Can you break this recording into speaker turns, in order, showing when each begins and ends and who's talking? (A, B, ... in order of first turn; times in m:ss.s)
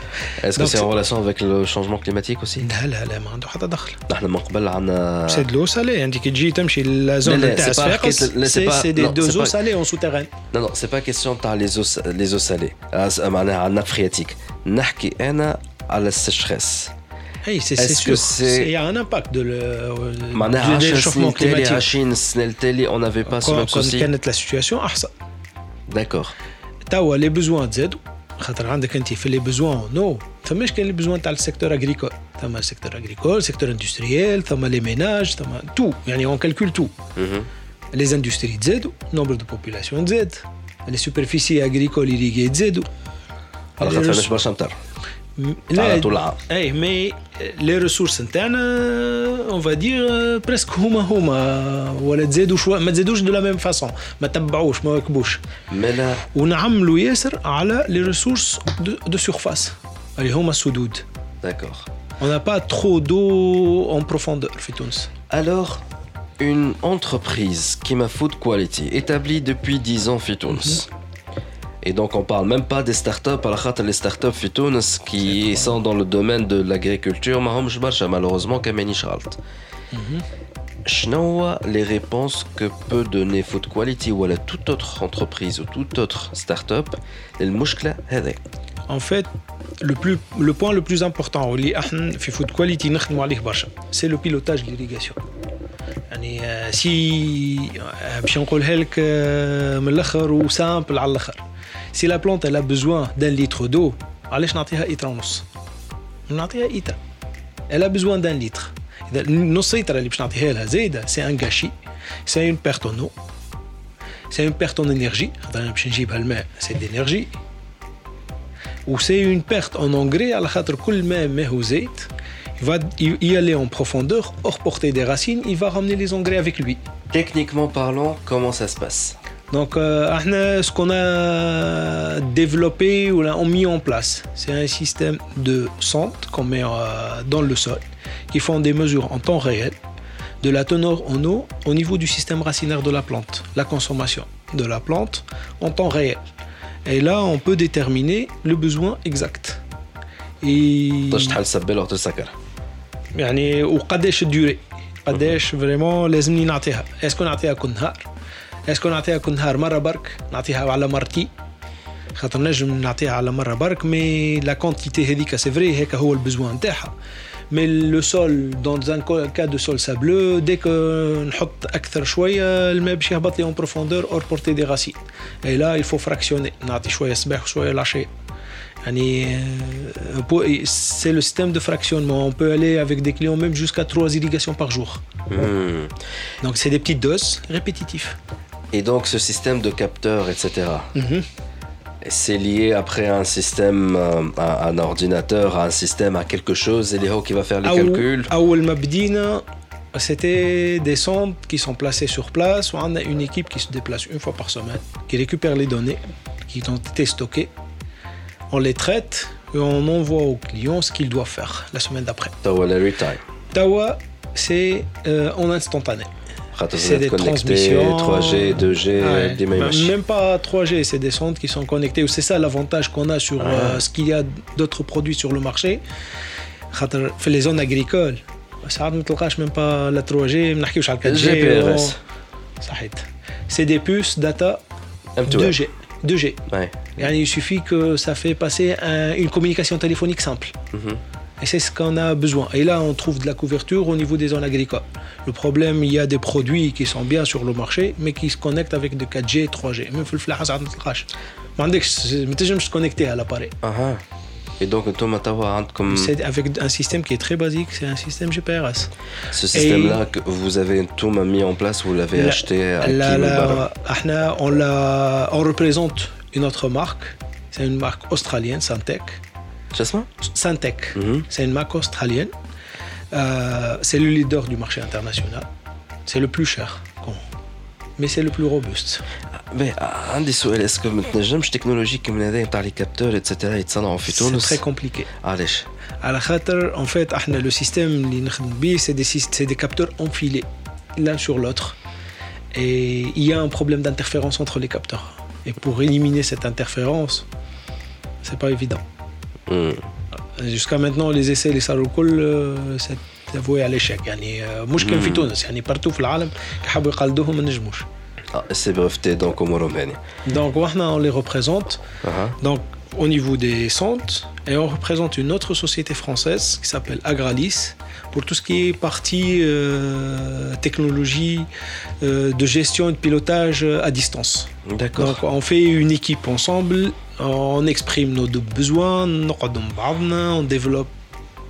0:00.4-0:02.7 A
0:00.6-0:00.9 B
0:02.6-0:04.0 B
0:04.1-0:05.5 A
0:05.3-0:10.3 B
0:07.2-0:09.6 A
0:10.5-0:16.9 A
0:17.4-0:21.8 B
0:17.8-0:18.7 A
0:20.3-0:24.1 A
0:23.3-0:25.1 B
0:25.9-0:26.3 A
0:26.9-0:36.9 B
0:37.2-0:37.5 A
0:37.9-0:42.9 B
0:43.8-0:44.3 B
0:43.8-0:44.8 A
0:45.4-0:55.4 B
0:45.8-0:46.4 A
0:55.7-0:56.2 A
0:56.3-1:01.0 B
1:01.4-1:01.9 A
1:02.2-1:05.1 B
1:05.3-1:05.8 A
1:06.4-1:10.9 A
1:11.8-1:19.4 A
1:15.3-1:15.7 B
1:19.9-1:20.2 B
1:20.9-1:28.4 A
1:28.9-1:29.3 B
1:29.8-1:35.2 B
1:36.1-1:41.4 B
1:41.9-1:45.5 B
1:46.3-1:47.0 B
1:47.7-1:51.7 B
1:52.3-1:53.1 B
1:54.3-1:57.3 B
1:58.9-2:06.8 B
2:07.1-2:09.2 A
2:09.5-2:19.8 B
2:20.4-2:26.2 B
2:26.9-2:29.6 B
2:30.4-2:31.4 B
2:31.1-2:32.4 A
2:33.2-2:38.1 B
2:38.7-2:41.3 B
2:42.1-2:46.9 B
2:47.5-2:58.1 B
2:58.8-3:05.0 B
3:05.3-3:06.0 A
3:06.4-3:08.2 B
3:08.7-3:10.9 A
3:11.0-3:11.2 B
3:12.0-3:18.3 A
3:17.6-3:27.5 B
3:28.5-3:32.4 B
3:32.4-3:33.2 A
3:33.5-3:36.1 B
3:36.5-3:39.9 A
3:36.8-3:45.8 B
3:43.4-3:43.8 A
3:46.7-3:52.0 B
3:51.0-3:52.0 A
3:52.6-3:54.6 B
3:55.2-3:55.6 A
3:55.3-3:56.4 B
3:56.5-3:57.0 A
3:57.0-4:00.5 B
4:00.7-4:01.0 A
4:01.4-4:13.6 B
4:13.6-4:14.0 A
4:14.6-4:16.1 A
4:15.9-4:18.9 B
4:19.3-4:23.6 A
4:19.5-4:20.0 B
4:22.2-4:29.2 B
4:29.7-4:30.1 A
4:30.2-4:32.3 B
4:31.0-4:31.3 A
4:33.1-4:35.5 B
4:36.1-4:37.2 B
4:38.0-4:39.0 B
4:39.5-4:44.6 A
4:44.1-4:45.1 B
4:45.2-4:45.7 A
4:46.0-4:50.5 B
4:51.0-4:51.8 B
4:52.5-4:57.2 B
4:58.2-4:58.8 B
4:59.5-4:59.9 A
5:00.4-5:07.9 B
5:04.8-5:05.3 A
5:08.3-5:10.0 A
5:10.3-5:11.8 B
5:12.0-5:12.4 A
5:12.4-5:21.5 B
5:22.0-5:30.9 B
5:24.7-5:25.2 A